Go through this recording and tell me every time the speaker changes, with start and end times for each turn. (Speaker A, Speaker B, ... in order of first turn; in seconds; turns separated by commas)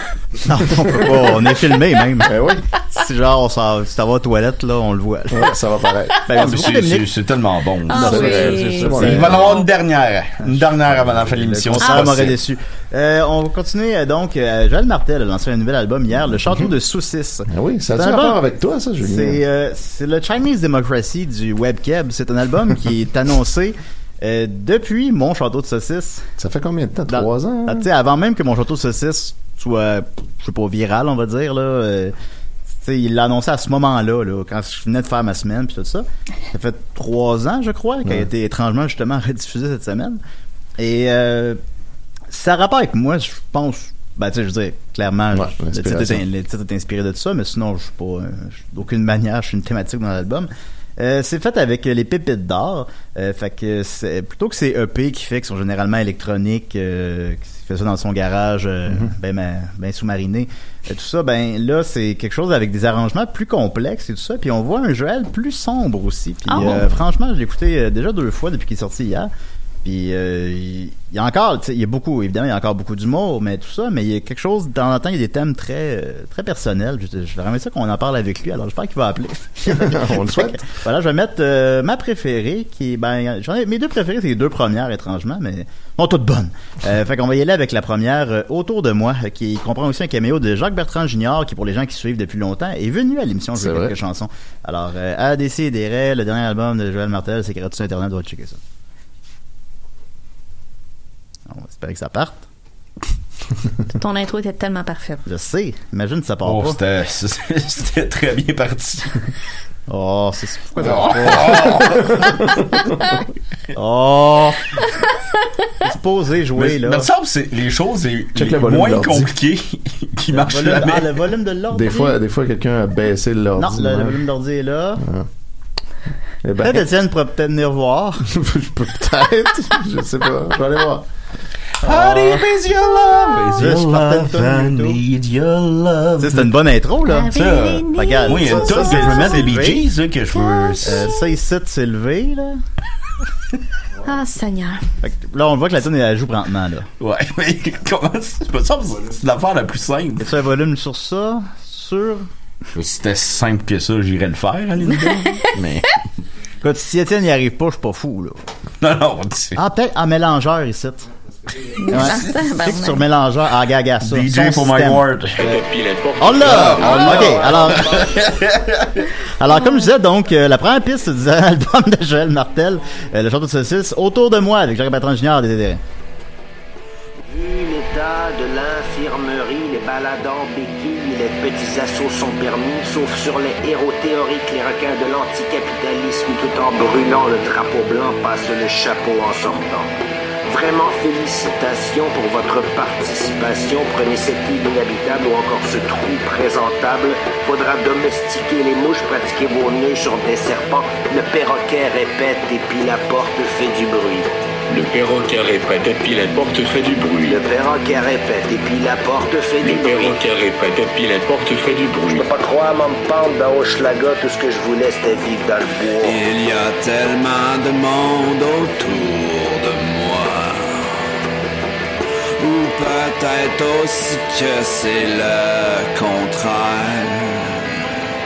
Speaker A: 0.5-5.5, Speaker B: 2.2-2.6, Speaker B: 5.3-6.2, Speaker A: 6.3-7.1, Speaker C: 6.3-12.4, Speaker D: 7.9-9.3, Speaker B: 8.0-9.5, Speaker A: 8.0-9.6, Speaker A: 10.4-18.4, Speaker D: 11.8-12.1, Speaker B: 17.5-19.4, Speaker A: 19.0-26.3, Speaker B: 26.4-27.9, Speaker A: 27.1-32.1, Speaker A: 32.8-40.2, Speaker A: 40.8-41.6, Speaker A: 42.3-69.3, Speaker B: 45.3-46.2, Speaker D: 66.5-66.9, Speaker B: 66.6-66.8, Speaker A: 69.8-98.6, Speaker B: 79.7-80.6, Speaker B: 93.6-93.9, Speaker A: 101.5-102.5, Speaker D: 103.9-105.2, Speaker A: 105.3-106.8, Speaker C: 106.5-109.3, Speaker A: 109.9-112.1, Speaker C: 110.8-112.5, Speaker B: 111.5-112.3, Speaker A: 113.7-114.6, Speaker A: 115.8-117.1, Speaker C: 116.6-121.1, Speaker B: 118.3-119.3, Speaker A: 120.3-122.2, Speaker B: 121.7-124.2, Speaker A: 123.6-125.0, Speaker B: 125.0-125.3, Speaker B: 126.4-126.8, Speaker A: 126.6-128.2, Speaker B: 128.3-131.1, Speaker C: 131.8-136.5, Speaker A: 131.8-132.6, Speaker A: 133.5-135.0, Speaker A: 136.2-137.3, Speaker D: 137.1-139.5, Speaker C: 137.3-141.1, Speaker A: 137.9-139.9, Speaker D: 140.5-140.8, Speaker A: 140.8-142.6, Speaker D: 144.0-144.8, Speaker A: 145.0-146.9, Speaker C: 147.0-150.3, Speaker A: 150.2-152.3, Speaker C: 152.7-156.0, Speaker D: 155.1-155.4, Speaker A: 156.6-158.4, Speaker C: 158.8-159.6, Speaker A: 159.6-161.1, Speaker D: 161.8-163.0, Speaker A: 161.9-165.6, Speaker C: 161.9-162.3, Speaker C: 164.0-165.4, Speaker E: 165.4-167.6, Speaker A: 166.2-168.1, Speaker C: 166.4-169.1, Speaker A: 169.4-175.8, Speaker F: 177.3-189.9, Speaker F: 190.5-204.3, Speaker E: 204.7-207.4, Speaker F: 207.2-210.2, Speaker E: 209.6-212.3, Speaker F: 212.1-216.2, Speaker G: 216.0-221.2, Speaker G: 222.4-228.0